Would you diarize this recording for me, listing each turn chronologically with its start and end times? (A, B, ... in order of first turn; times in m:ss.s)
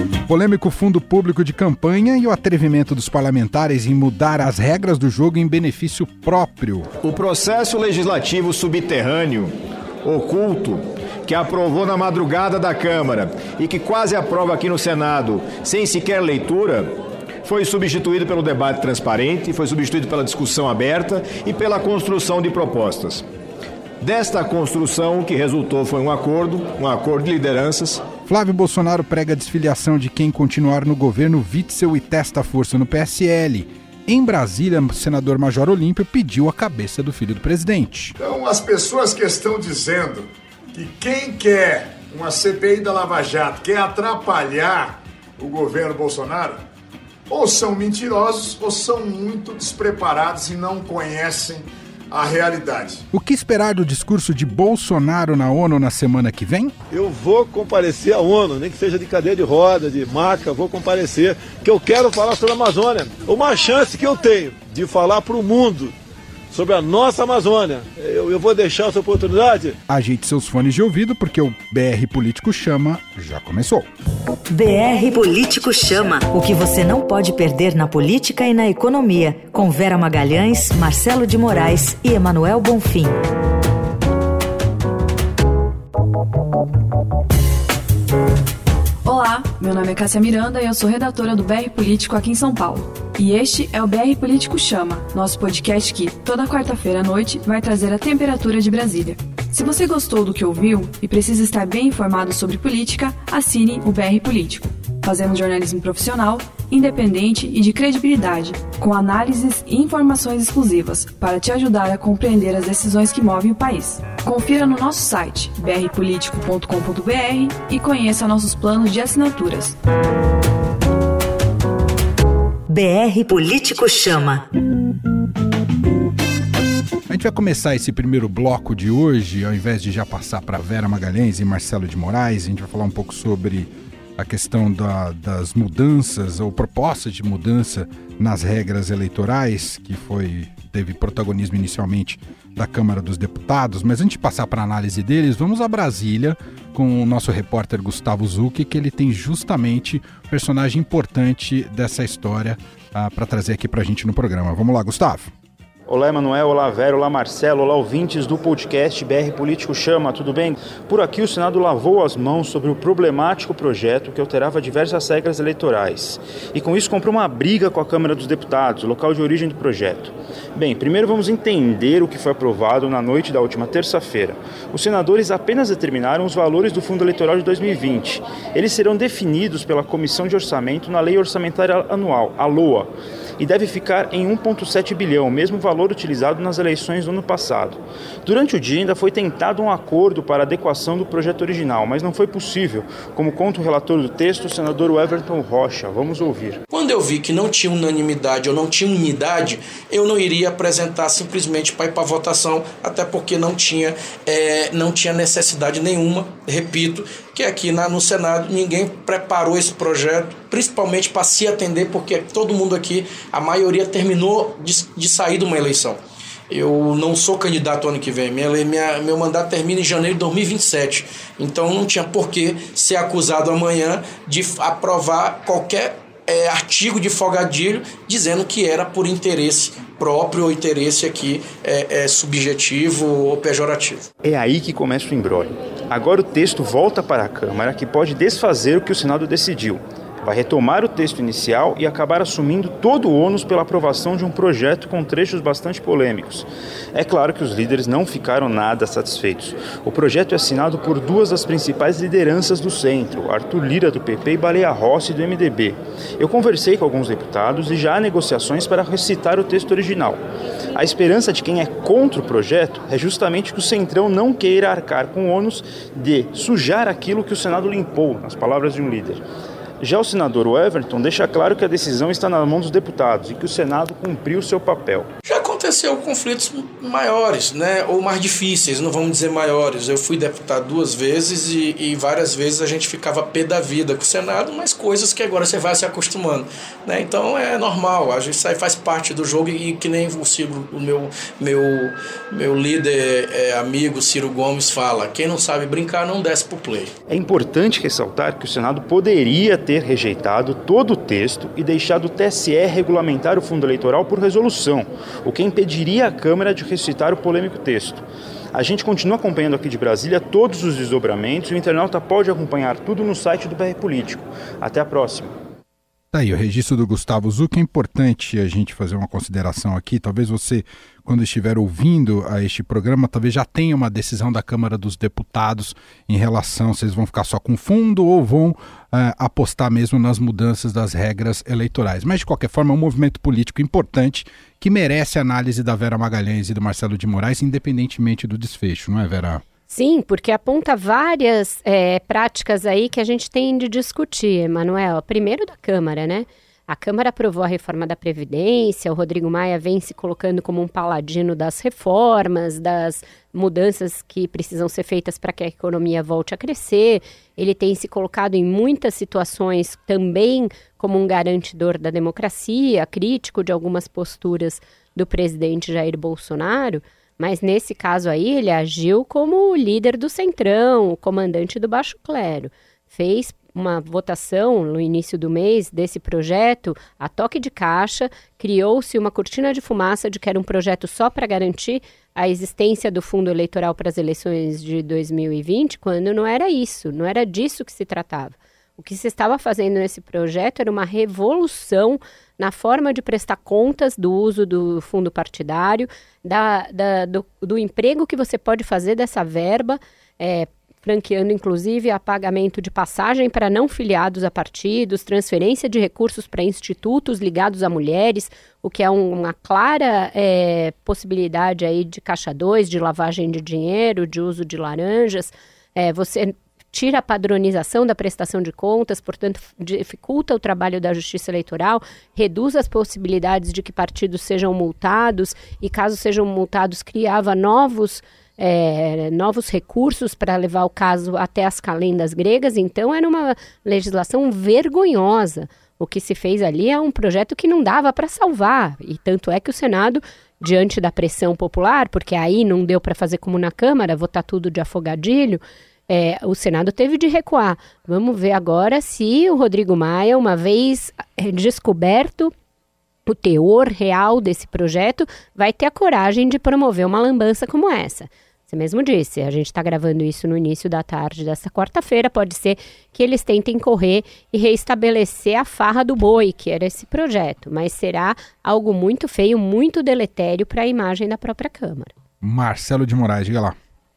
0:00.3-0:06.9 A
0:07.0-0:23.2 B
0:24.0-0:28.1 B
0:28.2-0:38.2 A
0:38.2-0:46.6 C
0:47.3-0:53.0 C
0:53.1-0:56.7 A
0:56.9-1:05.9 D
1:06.5-1:09.8 D
1:09.9-1:13.9 A
1:14.5-1:23.2 E
1:29.0-1:59.8 F
2:02.7-2:04.5 E
2:07.1-2:35.3 A
2:35.9-3:16.6 G
3:16.7-3:54.1 H
3:54.2-4:20.2 G
4:20.7-4:29.2 G
4:29.8-4:35.1 G
4:35.2-4:56.9 H
4:57.1-5:08.0 G
5:08.5-5:15.3 G
5:16.1-5:39.4 A
5:39.7-7:32.3 I
7:33.1-7:51.9 I
7:52.2-7:53.6 A